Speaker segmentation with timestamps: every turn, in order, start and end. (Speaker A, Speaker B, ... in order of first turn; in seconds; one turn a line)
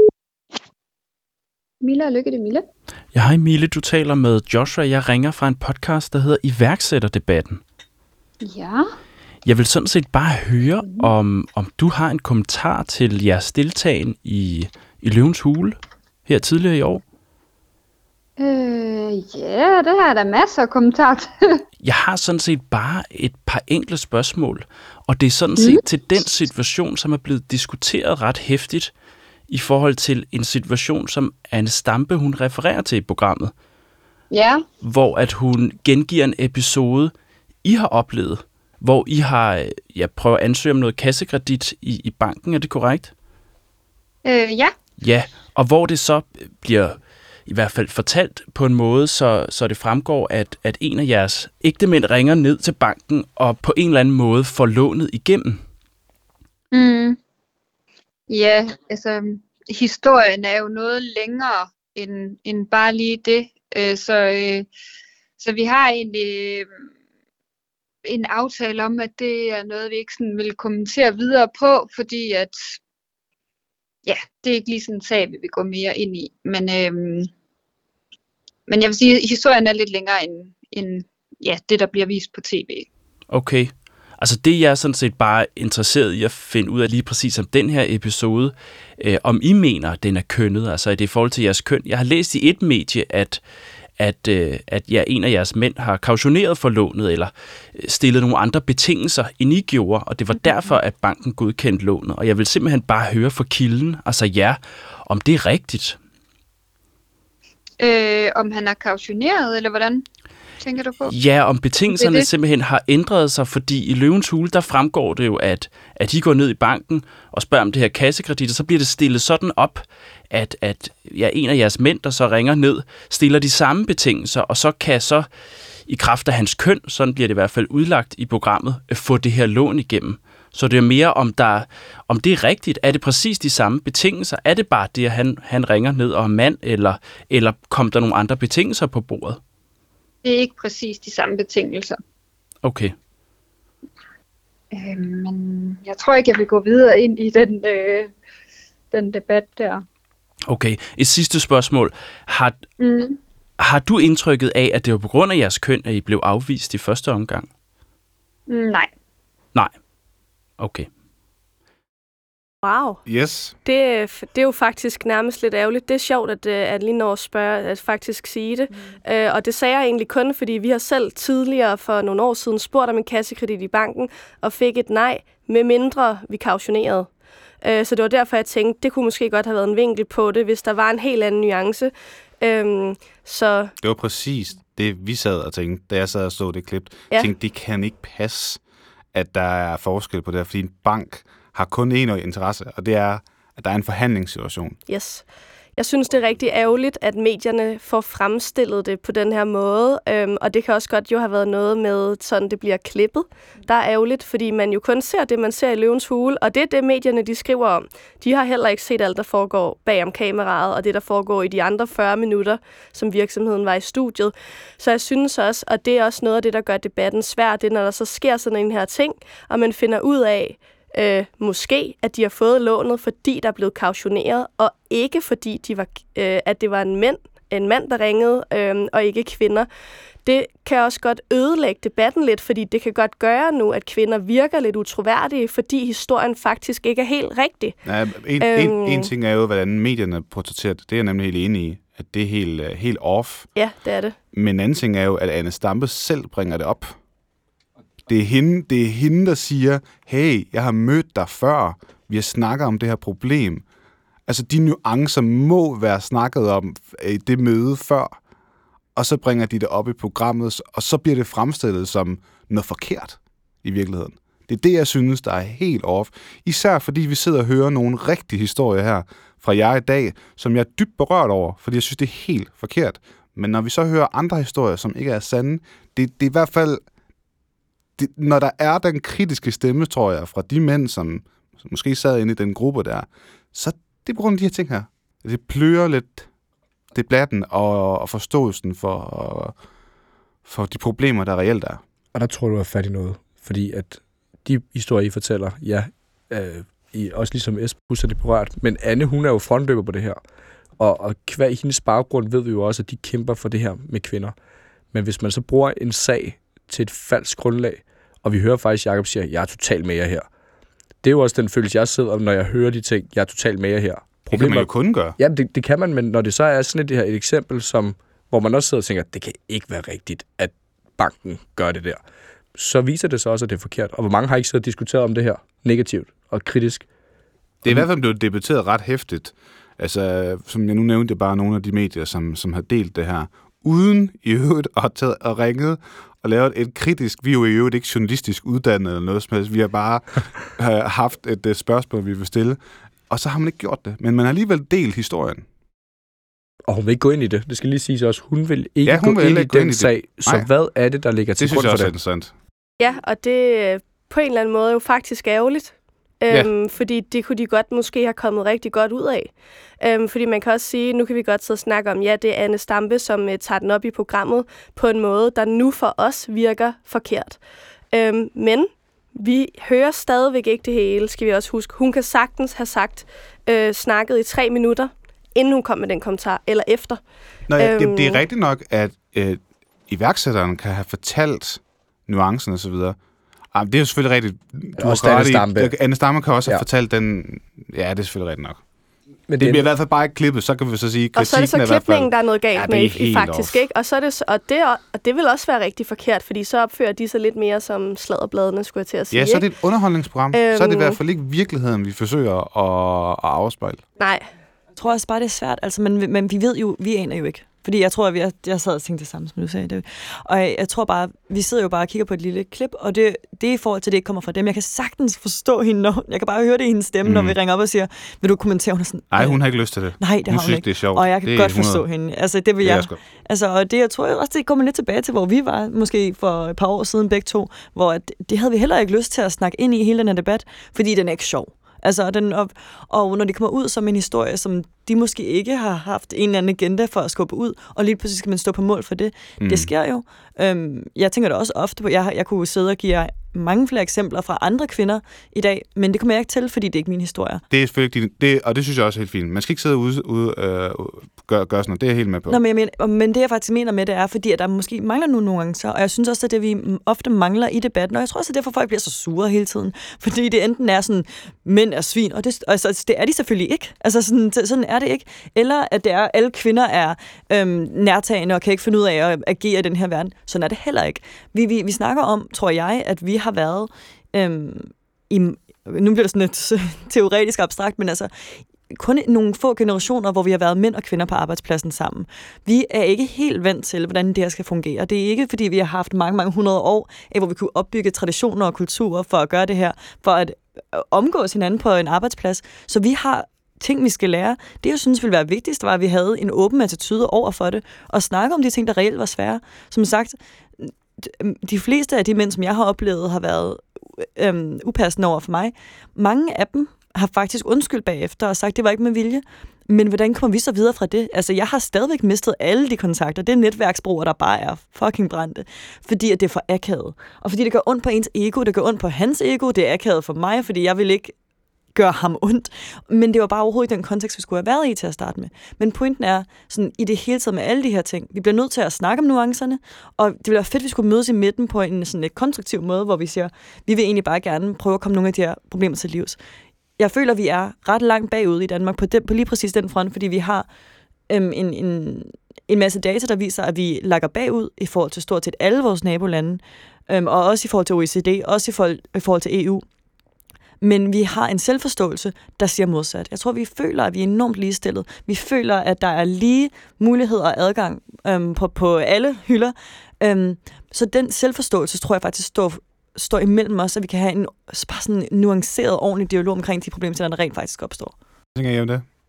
Speaker A: 1.8-2.6
Speaker B: 3.1-7.6
Speaker A: 8.4-8.9
Speaker B: 9.4-17.0
Speaker A: 10.8-11.1
Speaker A: 18.4-21.6
Speaker B: 21.8-28.9
Speaker A: 25.6-25.8
Speaker B: 29.5-33.5
Speaker A: 34.3-34.6
Speaker B: 34.8-37.1
Speaker B: 37.6-43.1
Speaker A: 44.2-44.7
Speaker B: 45.0-55.6
Speaker A: 56.7-57.2
Speaker A: 58.3-64.7
Speaker A: 65.4-66.7
Speaker A: 68.0-72.8
Speaker A: 74.0-77.3
Speaker A: 78.7-82.9
Speaker B: 83.3-93.4
Speaker B: 94.0-106.0
Speaker A: 100.4-100.7
Speaker A: 107.8-110.0
Speaker A: 110.6-111.1
Speaker B: 111.1-125.3
Speaker A: 111.9-112.3
Speaker B: 125.9-139.4
Speaker A: 140.2-142.0
Speaker B: 142.6-142.9
Speaker A: 144.7-148.1
Speaker A: 148.9-149.8
Speaker B: 150.5-152.6
Speaker A: 152.8-153.2
Speaker B: 153.6-157.5
Speaker A: 158.5-158.9
Speaker B: 160.6-160.9
Speaker C: 162.6-163.0
Speaker D: 163.1-163.5
Speaker C: 163.6-177.1
Speaker C: 177.6-183.7
Speaker D: 183.8-188.6
Speaker D: 189.1-194.8
Speaker C: 194.9-195.2
Speaker C: 195.8-229.7
Speaker C: 230.2-237.8
Speaker D: 237.8-243.5
Speaker C: 238.4-239.1
Speaker C: 243.6-244.2
Speaker D: 244.3-246.9
Speaker D: 248.1-253.6
Speaker D: 254.3-258.2
Speaker D: 258.9-276.8
Speaker D: 278.0-286.3
Speaker D: 286.9-289.5
Speaker D: 290.4-291.8
Speaker E: 292.1-300.2
Speaker E: 300.8-304.3
Speaker E: 304.9-310.2
Speaker E: 311.0-322.0
Speaker D: 314.3-315.1
Speaker E: 322.5-326.9
Speaker D: 327.6-345.4
Speaker E: 346.7-351.9
Speaker D: 348.8-350.5
Speaker D: 351.4-352.3
Speaker C: 352.8-367.4
Speaker C: 367.9-377.0
Speaker D: 377.5-383.0
Speaker C: 377.6-378.2
Speaker D: 383.5-388.6
Speaker E: 384.8-385.7
Speaker E: 389.3-389.7
Speaker D: 389.4-393.6
Speaker C: 391.1-399.4
Speaker D: 399.1-403.8
Speaker C: 400.3-401.0
Speaker C: 404.0-404.2
Speaker F: 404.8-419.4
Speaker D: 417.0-417.4
Speaker D: 419.1-421.8
Speaker F: 420.0-447.4
Speaker D: 422.6-423.0
Speaker D: 439.4-439.7
Speaker D: 447.5-452.4
Speaker F: 452.3-478.1
Speaker F: 478.7-521.1
Speaker F: 521.7-536.2
Speaker F: 536.8-540.5
Speaker F: 541.1-549.6
Speaker F: 550.6-567.9
Speaker D: 568.3-568.8